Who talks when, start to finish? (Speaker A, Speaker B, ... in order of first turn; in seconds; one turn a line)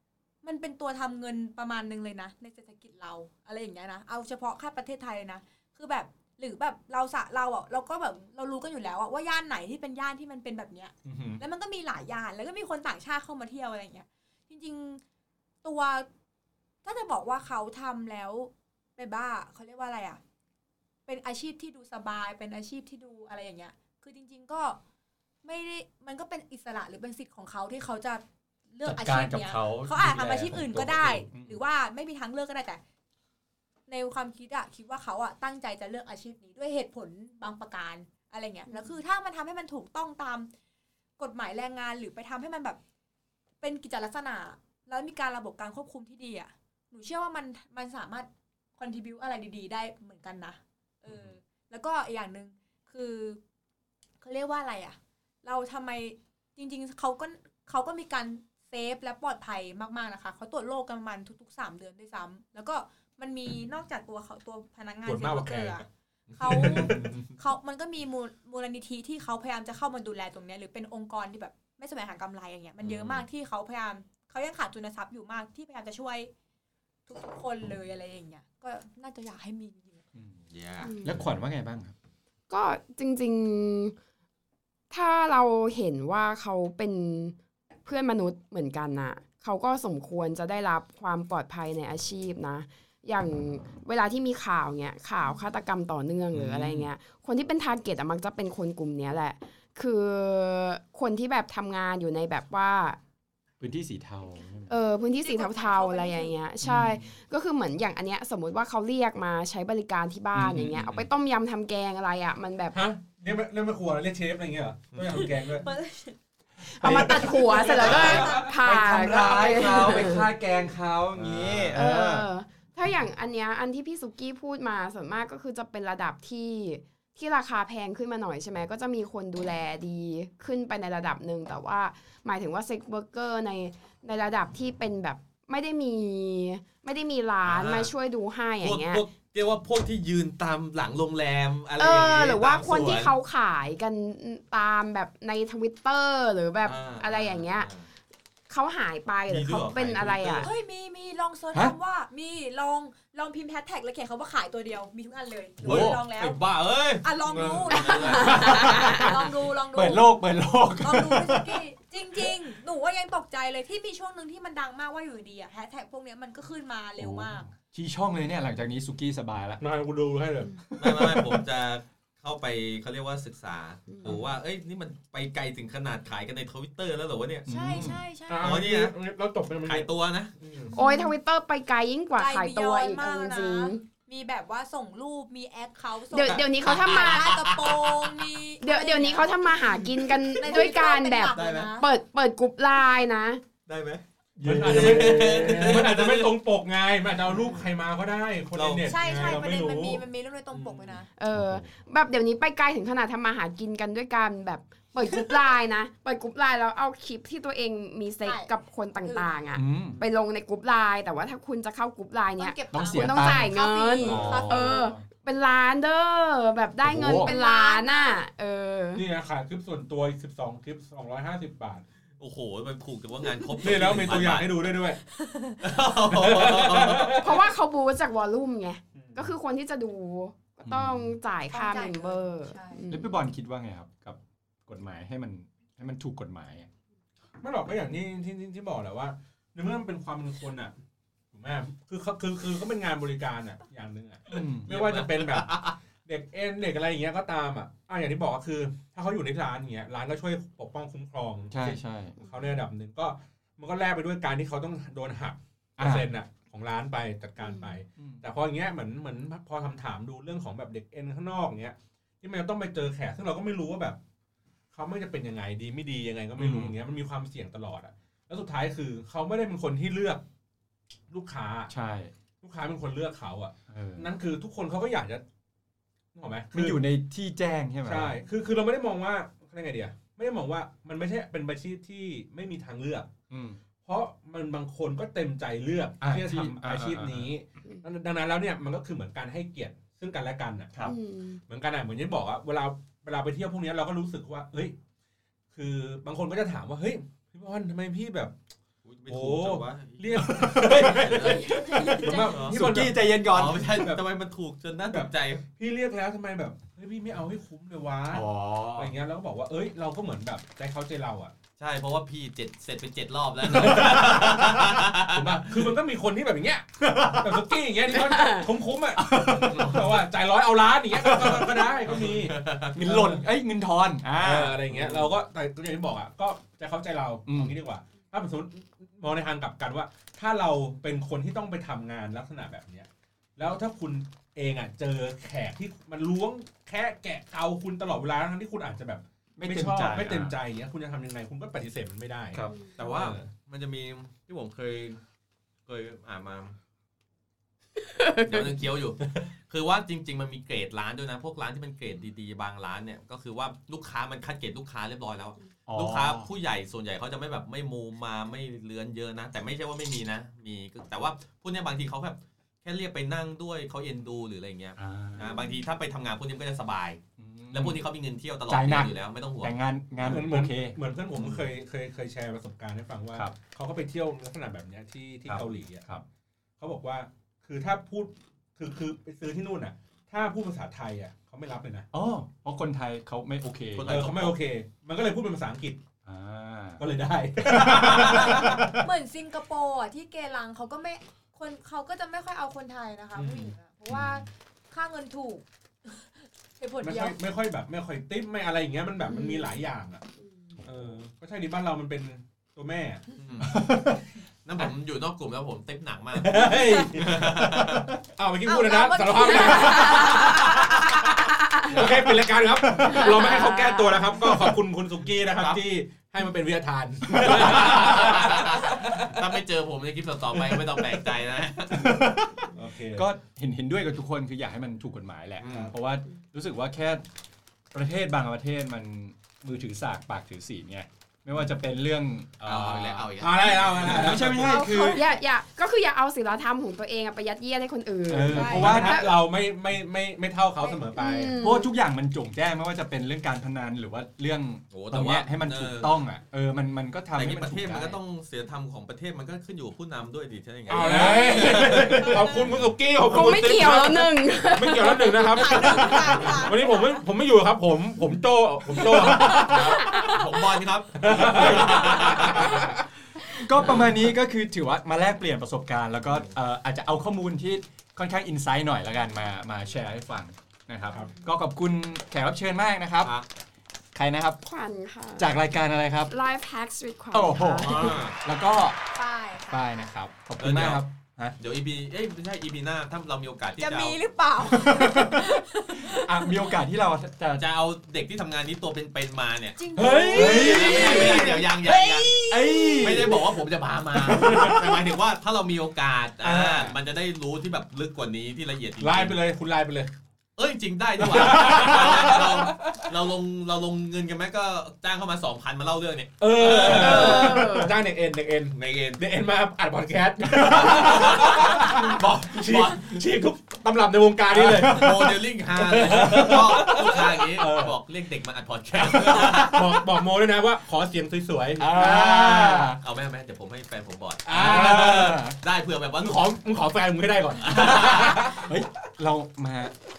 Speaker A: 0.4-15.0
Speaker B: 11.1-11.4
Speaker A: 15.6-16.1
Speaker A: 16.8-20.2
Speaker A: 21.1-24.8
Speaker A: 25.4-32.8
Speaker B: 28.8-31.6
Speaker A: 33.9-40.5
Speaker A: 41.2-42.8
Speaker A: 43.6-53.4
Speaker A: 54.2-76.3
Speaker C: 65.0-67.3
Speaker B: 66.4-67.2
Speaker D: 72.8-73.2
Speaker A: 77.1-80.0
Speaker D: 80.5-80.9
Speaker E: 80.8-81.2
Speaker B: 81.0-81.9
Speaker E: 82.5-84.0
Speaker E: 84.9-103.0
Speaker B: 96.3-96.9
Speaker B: 103.6-104.7
Speaker E: 104.7-112.8
Speaker A: 105.2-106.3
Speaker B: 106.6-107.0
Speaker B: 110.3-111.0
Speaker C: 112.7-115.7
Speaker A: 115.2-116.1
Speaker E: 116.7-120.3
Speaker B: 116.8-122.2
Speaker A: 117.3-118.6
Speaker C: 121.2-121.7
Speaker E: 121.7-139.0
Speaker D: 137.4-137.9
Speaker D: 138.6-143.1
Speaker E: 141.8-147.7
Speaker D: 146.6-147.8
Speaker E: 148.5-150.5
Speaker D: 149.3-150.5
Speaker A: 150.4-156.4
Speaker B: 155.6-156.0
Speaker D: 155.6-158.8
Speaker A: 157.0-167.5
Speaker E: 157.8-159.1
Speaker B: 158.3-161.6
Speaker B: 167.0-169.6
Speaker C: 169.6-170.6
Speaker B: 170.7-171.4
Speaker D: 170.8-177.5
Speaker E: 173.9-174.2
Speaker B: 177.5-178.0
Speaker A: 177.5-178.6
Speaker C: 178.3-180.7
Speaker D: 178.4-178.9
Speaker D: 179.6-180.3
Speaker A: 180.7-181.1
Speaker E: 180.7-183.8
Speaker A: 182.2-189.8
Speaker E: 186.1-187.4
Speaker D: 186.6-188.1
Speaker E: 188.6-193.4
Speaker A: 190.4-191.9
Speaker D: 191.3-191.7
Speaker D: 193.7-194.0
Speaker B: 194.4-195.9
Speaker C: 194.4-201.0
Speaker D: 194.6-196.3
Speaker D: 198.5-199.4
Speaker A: 198.8-201.1
Speaker E: 201.2-219.0
Speaker B: 201.3-201.7
Speaker A: 208.2-209.4
Speaker B: 209.5-210.0
Speaker A: 212.4-214.8
Speaker B: 212.7-215.0
Speaker B: 216.8-217.3
Speaker A: 217.2-218.2
Speaker C: 218.9-221.8
Speaker D: 222.2-224.5
Speaker C: 223.6-225.0
Speaker A: 225.1-225.7
Speaker D: 225.6-227.2
Speaker C: 226.1-227.4
Speaker E: 227.2-233.2
Speaker C: 228.9-229.3
Speaker B: 230.6-231.2
Speaker A: 231.5-232.8
Speaker B: 232.9-236.7
Speaker C: 237.4-240.7
Speaker C: 241.3-264.0
Speaker B: 244.3-244.7
Speaker D: 244.3-245.8
Speaker B: 251.5-252.2
Speaker B: 255.8-256.1
Speaker E: 257.4-257.7
Speaker B: 258.0-258.2
Speaker C: 264.7-270.2
Speaker B: 266.4-266.8
Speaker C: 271.1-271.7
Speaker B: 271.7-272.1
Speaker C: 272.4-275.2
Speaker B: 273.7-274.1
Speaker C: 276.1-276.8
Speaker B: 276.5-278.1
Speaker C: 277.9-283.1
Speaker B: 283.3-283.6
Speaker C: 283.8-290.7
Speaker B: 286.0-287.3
Speaker E: 290.8-291.4
Speaker C: 291.5-294.8
Speaker C: 295.5-298.4
Speaker D: 298.8-302.6
Speaker C: 299.1-304.0
Speaker B: 300.2-303.9
Speaker A: 301.4-302.2
Speaker D: 303.2-305.4
Speaker C: 304.9-311.3
Speaker B: 308.1-308.9
Speaker D: 311.6-315.7
Speaker C: 313.4-323.2
Speaker B: 316.8-317.5
Speaker E: 318.1-318.5
Speaker B: 318.9-319.9
Speaker D: 319.4-319.9
Speaker D: 321.2-322.8
Speaker B: 322.7-324.6
Speaker C: 324.2-343.3
Speaker D: 324.7-325.0
Speaker B: 327.2-327.6
Speaker B: 339.4-340.4
Speaker B: 342.3-342.6
Speaker D: 342.8-345.0
Speaker D: 345.7-346.6
Speaker E: 347.9-348.4
Speaker D: 348.2-367.0
Speaker B: 355.7-356.3
Speaker B: 364.8-365.3
Speaker B: 367.2-367.8
Speaker D: 367.5-369.5
Speaker B: 368.5-371.4
Speaker C: 370.0-375.8
Speaker B: 375.2-376.0
Speaker C: 376.6-381.9
Speaker B: 381.9-384.1
Speaker D: 383.7-384.4
Speaker C: 383.8-385.8
Speaker B: 386.0-386.8
Speaker C: 386.8-388.7
Speaker B: 387.4-388.9
Speaker A: 388.1-397.2
Speaker C: 393.1-393.5
Speaker B: 393.9-394.2
Speaker C: 396.8-400.0
Speaker E: 399.1-399.5
Speaker C: 400.6-403.0
Speaker D: 403.2-403.6
Speaker B: 403.5-404.0
Speaker D: 404.4-407.9
Speaker C: 406.1-411.0
Speaker A: 408.4-410.7
Speaker E: 410.0-411.7
Speaker C: 411.6-419.2
Speaker B: 412.5-413.0
Speaker E: 412.9-414.0
Speaker D: 415.3-415.6
Speaker B: 417.1-417.9
Speaker D: 417.1-422.1
Speaker B: 421.7-427.0
Speaker C: 422.5-423.1
Speaker D: 425.4-425.7
Speaker B: 427.7-435.0
Speaker D: 432.4-434.4
Speaker C: 433.2-434.6
Speaker E: 434.4-439.1
Speaker A: 434.7-435.0
Speaker B: 438.1-439.0
Speaker A: 438.3-438.8
Speaker C: 438.3-441.3
Speaker E: 440.9-441.7
Speaker B: 441.4-448.0
Speaker D: 444.7-445.9
Speaker D: 447.1-452.6
Speaker C: 450.7-460.0
Speaker B: 450.8-451.9
Speaker A: 451.1-452.5
Speaker E: 453.1-456.0
Speaker A: 455.0-457.0
Speaker E: 459.0-460.2
Speaker D: 459.3-462.6
Speaker C: 461.0-462.8
Speaker B: 461.1-462.6
Speaker B: 463.3-473.1
Speaker D: 466.1-466.3
Speaker A: 470.9-471.2
Speaker B: 473.9-474.4
Speaker E: 474.4-475.4
Speaker B: 475.2-476.1
Speaker E: 476.1-477.9
Speaker B: 477.1-478.8
Speaker D: 477.6-478.2
Speaker A: 478.9-479.9
Speaker B: 479.5-481.4
Speaker D: 480.4-480.8
Speaker D: 481.4-484.0
Speaker A: 483.6-486.5
Speaker B: 484.4-487.4
Speaker D: 487.4-489.6
Speaker A: 489.6-493.4
Speaker C: 489.7-491.4
Speaker B: 490.1-491.3
Speaker D: 490.3-492.2
Speaker B: 492.3-493.2
Speaker D: 492.8-499.2
Speaker C: 494.0-494.7
Speaker C: 496.2-496.7
Speaker C: 498.8-499.9
Speaker D: 500.4-507.5
Speaker C: 501.0-502.8
Speaker C: 506.2-517.7
Speaker E: 506.6-507.8
Speaker D: 510.3-513.0
Speaker D: 514.3-519.8
Speaker B: 514.5-515.1
Speaker B: 515.9-516.4
Speaker C: 518.7-522.8
Speaker B: 521.6-522.8
Speaker D: 521.8-526.3
Speaker C: 524.2-525.1
Speaker B: 524.3-525.4
Speaker C: 526.0-528.6
Speaker D: 527.4-528.4
Speaker B: 527.7-529.7